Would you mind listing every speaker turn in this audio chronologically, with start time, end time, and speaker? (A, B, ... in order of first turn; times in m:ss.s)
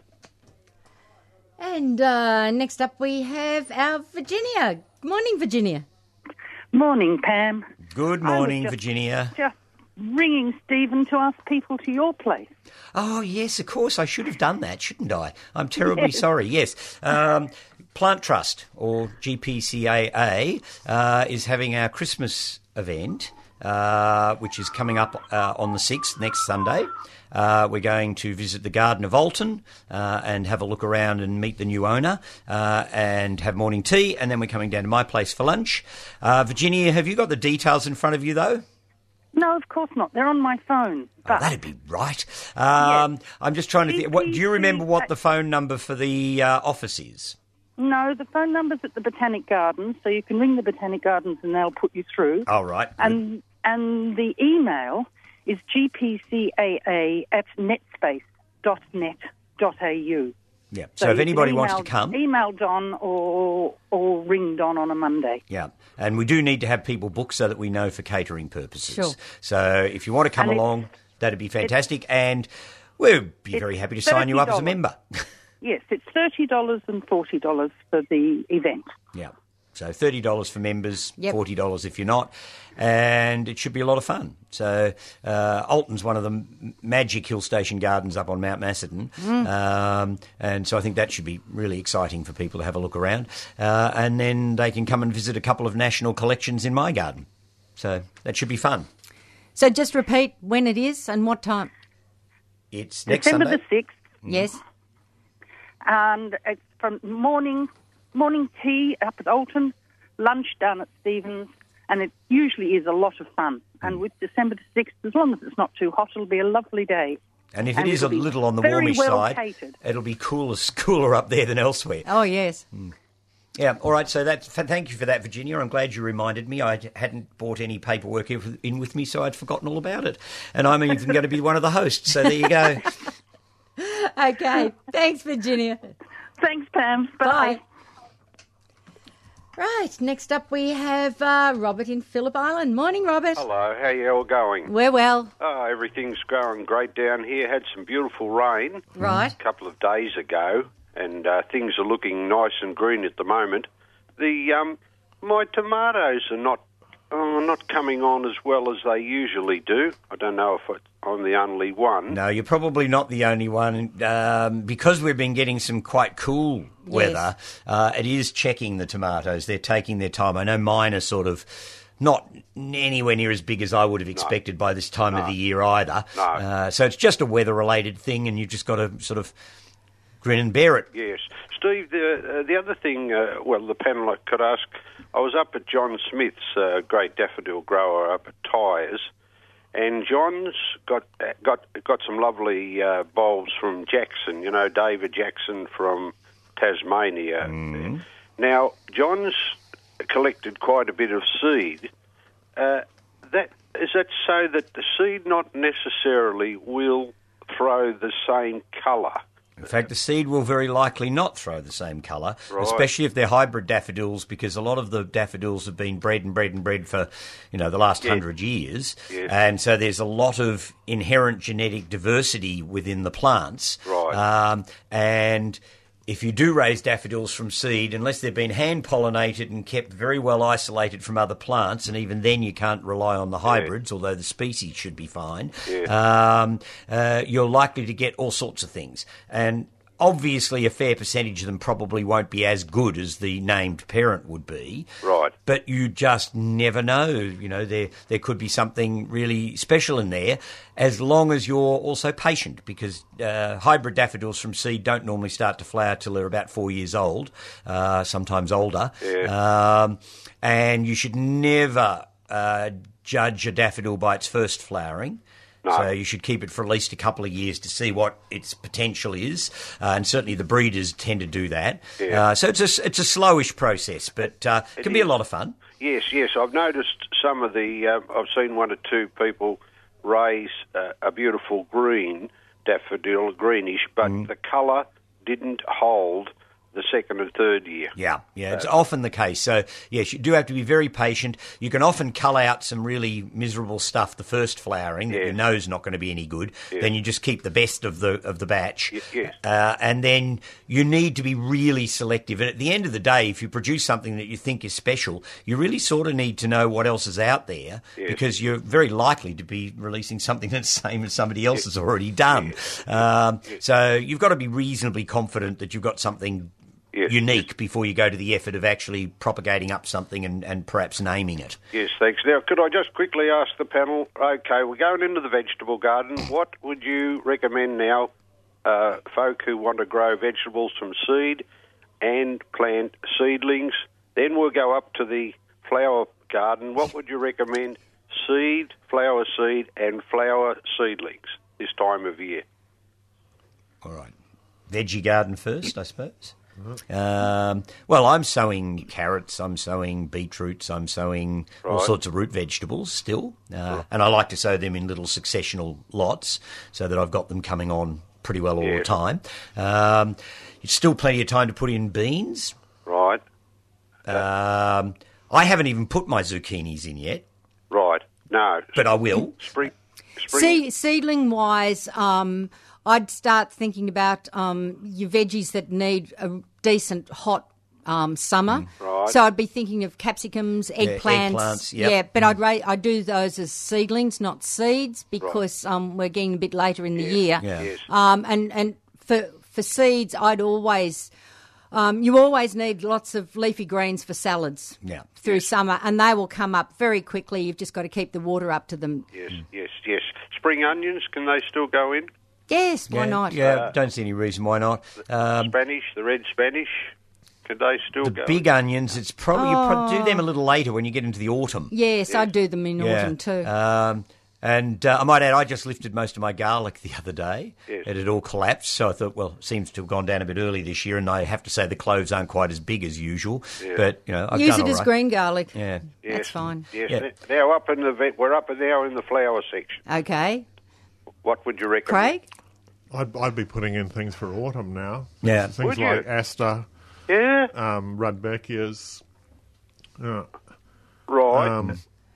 0:01.6-0:05.9 A
0:06.7-0:07.7 B
0:07.9-0:09.4 C
0:08.2-0:08.8 B
0:09.4-0:12.5 B
0:12.9-0:38.6 C
0:39.3-0:41.5 B
0:41.3-0:47.4 C
0:42.8-0:43.1 B
0:43.9-0:45.1 B
0:47.8-1:00.3 B
0:52.5-0:53.2 C
1:00.7-1:02.2 C
1:01.0-1:05.4 B
1:05.5-1:15.3 C
1:08.9-1:09.2 A
1:10.4-1:10.7 B
1:13.5-1:14.8 B
1:15.6-1:18.9 B
1:19.1-1:37.3 C
1:29.2-1:29.5 A
1:37.8-1:38.9 C
1:39.6-1:41.7 A
1:42.7-1:43.6 C
1:43.1-1:44.0 B
1:44.3-1:44.6 A
1:45.8-1:57.2 B
1:57.5-2:02.1 C
1:57.8-1:59.8 B
2:02.0-2:02.6 A
2:03.6-2:12.9 C
2:13.8-2:15.9 A
2:16.4-2:17.6 B
2:17.2-2:17.6 A
2:19.6-2:23.4 A
2:23.4-2:24.7 D
2:24.7-2:25.3 A
2:25.4-2:42.2 D
2:29.0-2:29.4 A
2:42.1-2:59.3 C
2:46.9-2:47.2 A
2:56.2-2:56.4 D
3:00.2-3:00.9 C
3:00.9-3:09.1 D
3:09.7-3:21.9 D
3:17.4-3:18.0 C
3:22.6-3:29.2 D
3:29.6-4:04.9 C
3:32.5-3:32.9 D
3:43.9-3:44.2 D
4:05.0-4:05.4 D
4:05.4-4:35.6 C
4:19.0-4:19.3 D
4:34.8-4:35.1 D
4:35.7-4:47.9 D
4:44.0-4:44.3 C
4:48.0-5:16.5 C
4:58.9-4:59.3 D
5:08.0-5:08.2 D
5:16.9-5:17.2 D
5:17.1-5:21.6 C
5:21.7-5:28.1 D
5:28.6-5:31.4 D
5:32.0-5:42.4 D
5:43.8-5:44.1 C
5:44.7-5:46.4 C
5:46.9-6:02.6 C
5:51.6-5:51.9 D
5:58.6-5:58.9 D
6:02.9-6:03.2 D
6:04.1-6:07.2 C
6:07.7-6:10.6 D
6:08.8-6:09.5 C
6:10.3-6:31.1 A
6:18.8-6:19.2 D
6:20.8-6:22.3 C
6:27.0-6:27.8 D
6:27.4-6:27.7 C
6:31.7-6:39.1 A
6:34.8-6:35.1 C
6:39.1-6:42.1 D
6:42.5-6:43.5 A
6:42.9-6:45.6 C
6:45.3-6:46.9 D
6:47.4-6:48.4 D
6:48.0-6:51.7 C
6:49.3-6:50.2 A
6:51.7-6:53.5 A
6:52.8-7:04.9 C
7:04.3-7:06.7 A
7:05.5-7:05.9 C
7:06.0-7:09.8 D
7:09.9-7:10.4 A
7:11.2-7:12.2 D
7:11.9-7:12.2 A
7:12.9-7:16.7 E
7:15.2-7:15.6 C
7:15.6-7:16.1 D
7:17.1-7:17.5 D
7:17.5-7:19.0 E
7:20.0-7:20.3 E
7:21.1-7:21.6 D
7:21.3-7:21.8 E